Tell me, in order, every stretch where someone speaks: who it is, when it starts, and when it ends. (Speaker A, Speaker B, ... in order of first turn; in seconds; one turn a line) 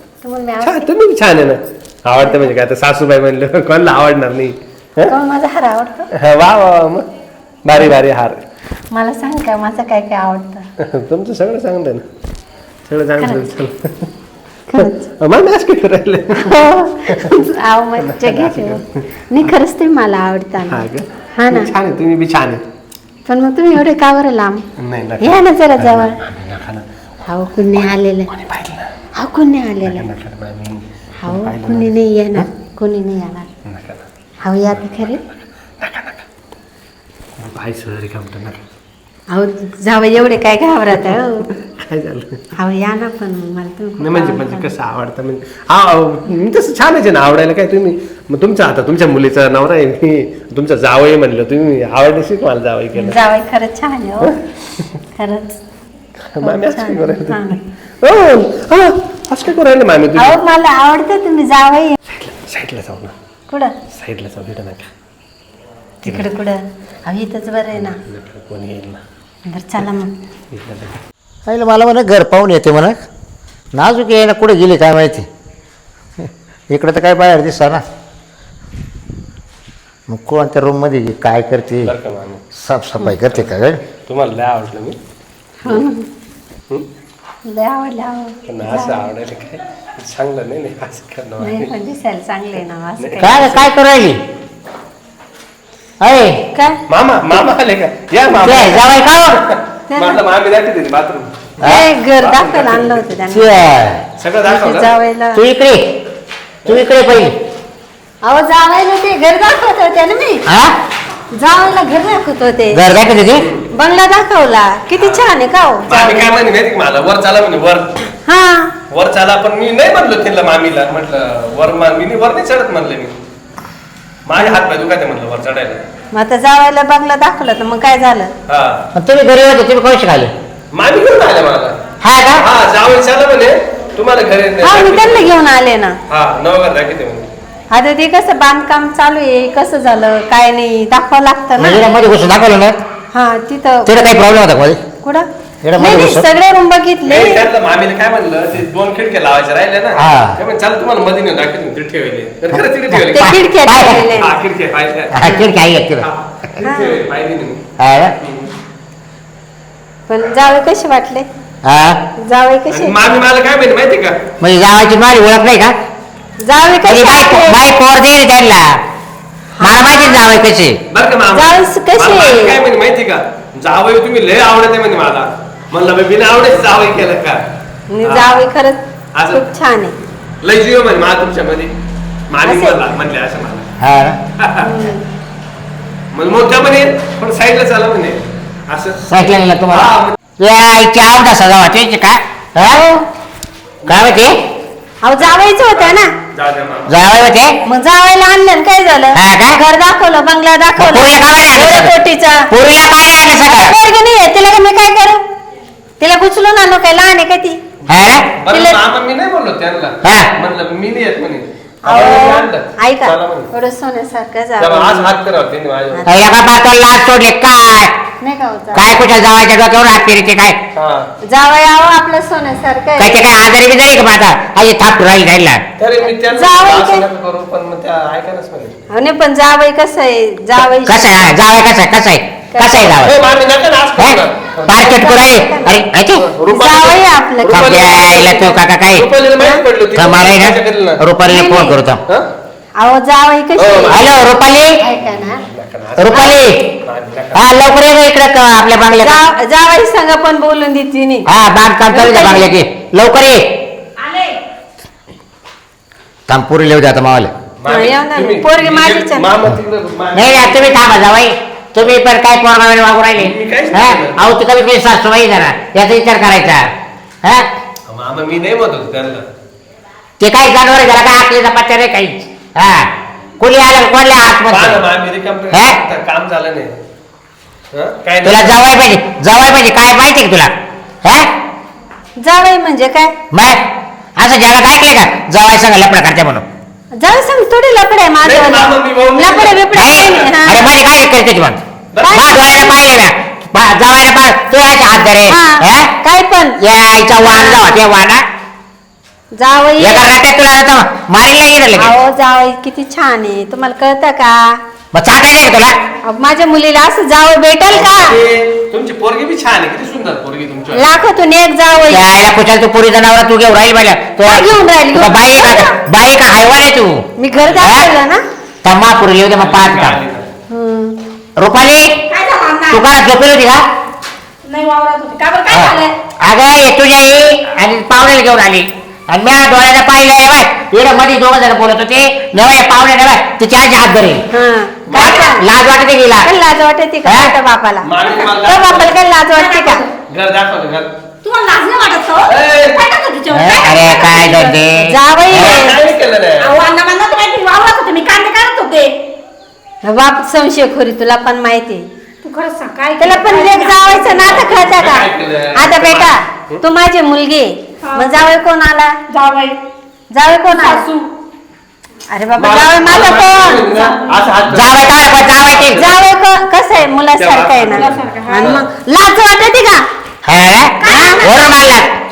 Speaker A: 0.2-0.8
Speaker B: 0.6-5.1
Speaker A: 2.2-2.5
Speaker A: 5.1-6.1
Speaker B: 6.1-7.0
Speaker B: 7.6-8.4
Speaker A: 8.9-10.7
Speaker B: 10.8-12.1
Speaker B: 12.9-14.1
Speaker A: 13.2-13.5
Speaker A: 14.7-15.1
Speaker B: 14.8-16.5
Speaker A: 16.4-21.7
Speaker B: 18.0-18.8
Speaker B: 20.7-22.6
Speaker A: 23.3-24.6
Speaker B: 24.8-26.8
Speaker A: 25.2-26.2
Speaker A: 27.3-28.3
Speaker B: 27.8-28.9
Speaker A: 29.1-30.1
Speaker B: 29.8-31.9
Speaker A: 31.2-33.5
Speaker B: 33.6-34.0
Speaker A: 34.4-35.2
Speaker B: 35.8-36.2
Speaker B: 37.4-38.6
Speaker A: 39.3-41.5
Speaker B: 41.6-42.5
Speaker A: 42.6-44.7
Speaker B: 44.0-53.2
Speaker A: 53.0-54.4
Speaker A: 55.1-55.6
Speaker B: 56.3-57.4
Speaker A: 56.4-57.6
Speaker B: 58.0-60.4
Speaker A: 60.1-62.0
Speaker B: 62.1-63.1
Speaker A: 63.5-63.7
Speaker B: 63.9-64.9
Speaker A: 66.0-68.0
Speaker B: 66.0-66.3
Speaker B: 67.9-69.0
Speaker A: 69.5-70.1
Speaker B: 70.5-71.0
Speaker C: 71.5-73.0
Speaker C: 73.8-75.3
Speaker C: 76.7-77.8
Speaker C: 80.1-81.9
Speaker B: 81.8-82.4
Speaker C: 82.6-83.8
Speaker A: 82.9-83.2
Speaker B: 83.1-83.5
Speaker B: 84.0-85.0
Speaker A: 85.6-86.1
Speaker A: 87.5-89.1
Speaker B: 88.5-91.7
Speaker A: 91.4-93.6
Speaker B: 93.0-93.5
Speaker C: 93.2-94.2
Speaker C: 96.0-96.4
Speaker A: 96.5-96.8
Speaker B: 96.9-103.1
Speaker C: 98.4-99.4
Speaker A: 99.9-100.2
Speaker C: 101.6-101.9
Speaker A: 101.6-103.5
Speaker C: 103.3-104.0
Speaker B: 104.2-104.9
Speaker A: 104.4-105.4
Speaker C: 105.3-105.8
Speaker C: 106.7-107.3
Speaker A: 108.2-110.4
Speaker C: 110.5-110.8
Speaker A: 111.3-112.8
Speaker C: 112.7-113.5
Speaker B: 113.3-113.6
Speaker A: 113.7-116.3
Speaker B: 115.0-115.2
Speaker B: 115.9-117.9
Speaker A: 118.2-118.7
Speaker B: 118.9-123.1
Speaker B: 124.2-125.8
Speaker A: 126.1-128.3
Speaker B: 128.5-128.8
Speaker C: 128.9-130.3
Speaker B: 130.7-131.8
Speaker C: 132.0-132.4
Speaker B: 132.4-135.3
Speaker A: 134.6-136.0
Speaker B: 136.1-137.3
Speaker A: 137.7-141.9
Speaker C: 141.6-142.8
Speaker A: 143.1-144.0
Speaker C: 143.9-144.8
Speaker A: 145.0-147.5
Speaker C: 145.6-146.3
Speaker B: 147.1-153.4
Speaker C: 150.0-150.4
Speaker C: 153.0-154.1
Speaker A: 153.1-154.4
Speaker B: 154.1-155.2
Speaker C: 155.1-156.1
Speaker B: 156.0-157.6
Speaker A: 156.6-157.0
Speaker C: 157.8-158.1
Speaker B: 158.2-158.5
Speaker A: 160.1-161.3
Speaker C: 161.6-162.0
Speaker A: 162.2-163.0
Speaker B: 162.7-164.2
Speaker C: 164.4-165.8
Speaker A: 166.4-167.6
Speaker C: 166.9-168.8
Speaker A: 169.6-170.2
Speaker C: 169.6-170.8
Speaker B: 170.9-177.4
Speaker A: 171.3-172.6
Speaker A: 177.9-178.8
Speaker B: 178.0-178.5
Speaker B: 179.1-179.4
Speaker A: 179.3-179.9
Speaker B: 180.4-181.7
Speaker B: 182.3-183.7
Speaker A: 182.4-182.8
Speaker C: 183.8-184.2
Speaker B: 184.4-184.7
Speaker A: 184.6-185.1
Speaker B: 186.1-190.1
Speaker C: 189.1-193.0
Speaker B: 193.8-194.3
Speaker C: 193.9-194.4
Speaker A: 195.0-196.1
Speaker B: 195.2-196.9
Speaker C: 196.9-197.6
Speaker A: 197.6-202.5
Speaker C: 199.1-199.6
Speaker C: 200.8-201.9
Speaker C: 202.5-203.8
Speaker A: 203.5-205.2
Speaker A: 206.0-207.6
Speaker C: 207.9-208.2
Speaker B: 207.9-213.5
Speaker A: 208.5-208.8
Speaker C: 210.0-210.3
Speaker A: 211.9-215.1
Speaker B: 214.6-216.1
Speaker C: 216.1-217.9
Speaker A: 218.2-219.0
Speaker C: 218.7-220.6
Speaker B: 220.8-221.1
Speaker A: 221.2-223.3
Speaker C: 223.0-225.6
Speaker B: 225.8-228.8
Speaker A: 226.0-227.1
Speaker A: 228.9-231.3
Speaker C: 230.8-233.2
Speaker A: 232.5-233.1
Speaker B: 233.0-234.8
Speaker C: 234.0-236.3
Speaker A: 234.7-235.8
Speaker B: 236.2-241.0
Speaker A: 236.5-237.8
Speaker C: 237.5-239.1
Speaker A: 239.4-239.6
Speaker C: 239.9-242.0
Speaker A: 241.3-241.8
Speaker A: 242.8-244.2
Speaker B: 243.6-244.0
Speaker C: 243.9-244.7
Speaker A: 244.8-245.4
Speaker B: 245.5-247.5
Speaker C: 246.0-246.6
Speaker A: 246.1-246.4
Speaker C: 247.3-249.2
Speaker A: 249.0-251.3
Speaker C: 251.3-253.4
Speaker A: 251.9-252.5
Speaker D: 254.0-254.4
Speaker C: 256.3-257.3
Speaker B: 257.6-260.6
Speaker A: 257.7-259.3
Speaker C: 260.1-266.6
Speaker B: 263.1-264.2
Speaker B: 267.9-269.3
Speaker C: 270.2-272.9
Speaker C: 273.4-274.8
Speaker B: 274.5-276.7
Speaker C: 275.5-275.8
Speaker B: 277.7-278.6
Speaker C: 278.2-280.5
Speaker C: 281.0-281.3
Speaker A: 282.2-283.1
Speaker C: 283.3-283.6
Speaker C: 284.2-286.4
Speaker A: 287.0-290.7
Speaker B: 288.2-290.2
Speaker C: 289.7-295.9
Speaker B: 291.9-292.6
Speaker A: 292.0-292.8
Speaker A: 295.2-296.6
Speaker C: 296.6-298.2
Speaker A: 297.2-297.8
Speaker A: 299.4-300.1
Speaker C: 299.8-301.9
Speaker A: 301.7-304.6
Speaker C: 304.9-305.8
Speaker A: 306.1-308.2
Speaker B: 307.7-310.9
Speaker A: 310.7-312.1
Speaker C: 311.9-317.0
Speaker A: 314.2-315.7
Speaker A: 317.2-318.2
Speaker B: 317.4-317.6
Speaker C: 317.6-317.9
Speaker C: 318.6-320.0
Speaker B: 319.4-320.3
Speaker A: 320.5-321.0
Speaker C: 321.4-321.9
Speaker D: 322.1-322.9
Speaker C: 322.7-323.6
Speaker D: 324.4-325.9
Speaker C: 325.5-334.2
Speaker A: 334.3-335.4
Speaker C: 334.9-336.3
Speaker D: 334.9-335.3
Speaker A: 336.2-337.9
Speaker C: 337.1-337.3
Speaker B: 337.8-339.0
Speaker D: 338.1-338.4
Speaker A: 338.4-339.8
Speaker D: 339.3-339.9
Speaker B: 340.1-340.9
Speaker D: 341.2-344.3
Speaker B: 342.3-342.8
Speaker C: 343.3-345.4
Speaker A: 343.9-345.8
Speaker B: 345.3-346.5
Speaker D: 346.4-348.9
Speaker A: 349.8-351.8
Speaker D: 352.2-354.4
Speaker A: 353.0-358.9
Speaker B: 354.3-356.6
Speaker D: 357.8-358.2
Speaker D: 359.1-359.6
Speaker A: 360.1-360.8
Speaker D: 360.5-361.1
Speaker A: 362.1-364.1
Speaker B: 362.4-365.9
Speaker C: 364.5-365.8
Speaker A: 365.8-369.8
Speaker B: 367.2-368.7
Speaker D: 367.7-368.6
Speaker C: 370.3-371.9
Speaker D: 370.8-371.7
Speaker A: 370.9-371.2